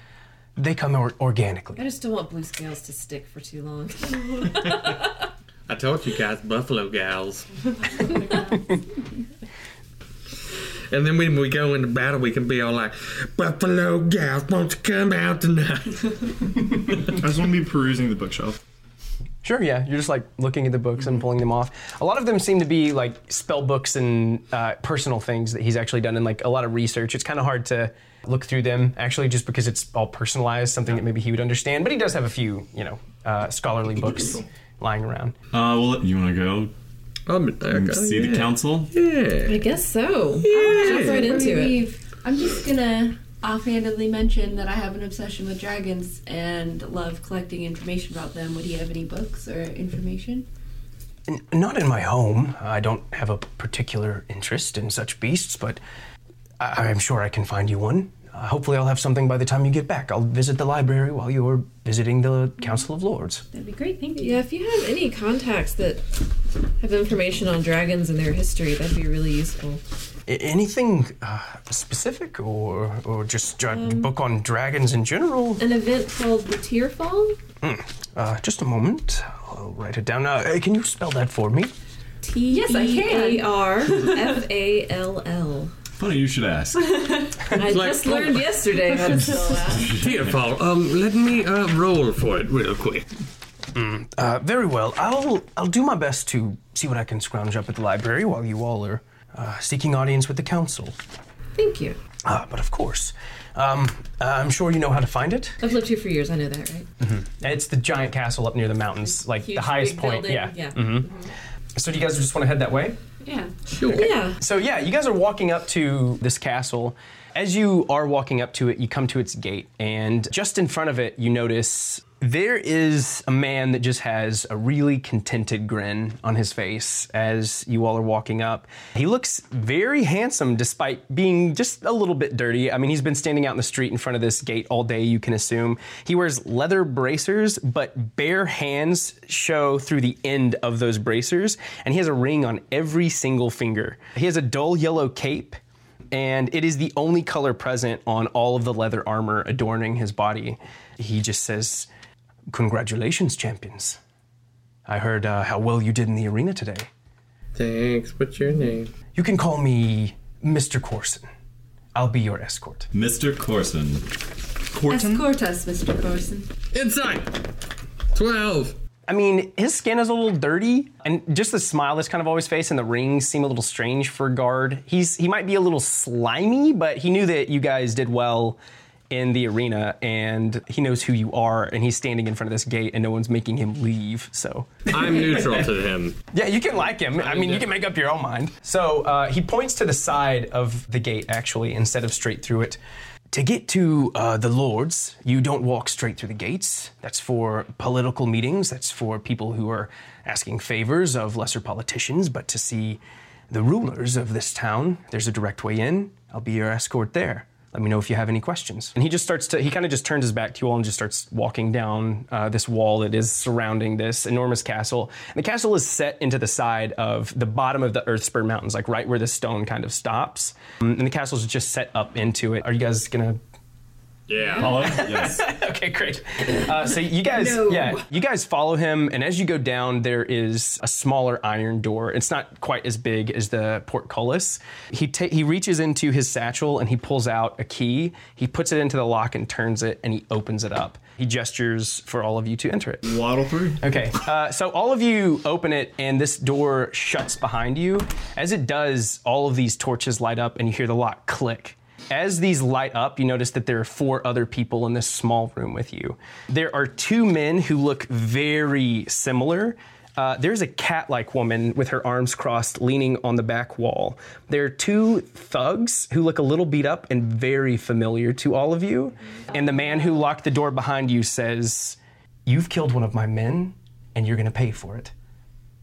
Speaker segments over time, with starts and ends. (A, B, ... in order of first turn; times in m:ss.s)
0:00.6-0:01.8 A
0:01.8-0:05.0 B
0:05.7-0:07.5 C
0:10.9-0:16.3 C
0:17.1-0:18.6 D
0:19.4-0:35.3 A
0:34.1-0:34.4 D
0:35.5-0:36.7 E
0:37.3-0:39.7 C
0:37.7-0:38.9 E
0:39.4-0:41.8 B
0:40.4-0:41.4 C
0:40.4-0:50.4 F
0:51.3-0:55.8 A
0:56.6-1:03.4 A
1:03.5-1:04.4 F
1:04.2-1:06.3 B
1:06.8-1:09.8 B
1:10.3-1:15.6 A
1:13.7-1:14.1 B
1:15.6-1:17.4 B
1:17.6-1:21.7 A
1:22.2-1:24.4 F
1:22.5-1:25.7 B
1:26.0-1:26.8 E
1:27.0-1:29.9 B
1:27.6-1:33.1 C
1:29.1-1:29.7 F
1:29.7-1:30.3 E
1:33.7-1:41.0 A
1:41.6-1:42.0 B
1:42.2-1:45.6 A
1:45.6-1:46.9 B
1:47.0-1:51.1 A
1:49.0-1:51.3 B
1:51.7-1:53.0 A
1:53.2-1:53.5 F
1:53.7-1:54.2 C
1:53.9-1:54.4 B
1:53.9-2:25.6 A
2:26.1-2:31.9 A
2:32.5-2:34.0 A
2:34.8-2:36.9 A
2:37.5-2:38.9 C
2:39.1-2:41.2 A
2:41.9-2:42.9 A
2:42.9-2:44.1 E
2:44.7-2:45.2 D
2:44.9-2:46.5 F
2:46.7-2:47.4 C
2:48.1-2:48.8 C
2:49.1-2:58.6 A
2:59.1-3:05.7 A
3:04.9-3:06.2 C
3:06.3-3:12.8 A
3:07.2-3:07.7 C
3:13.3-3:43.4 A
3:44.3-3:45.0 C
3:44.6-3:45.4 E
3:44.8-4:03.2 A
3:47.4-3:48.0 F
4:03.0-4:03.8 D
4:03.8-4:35.1 A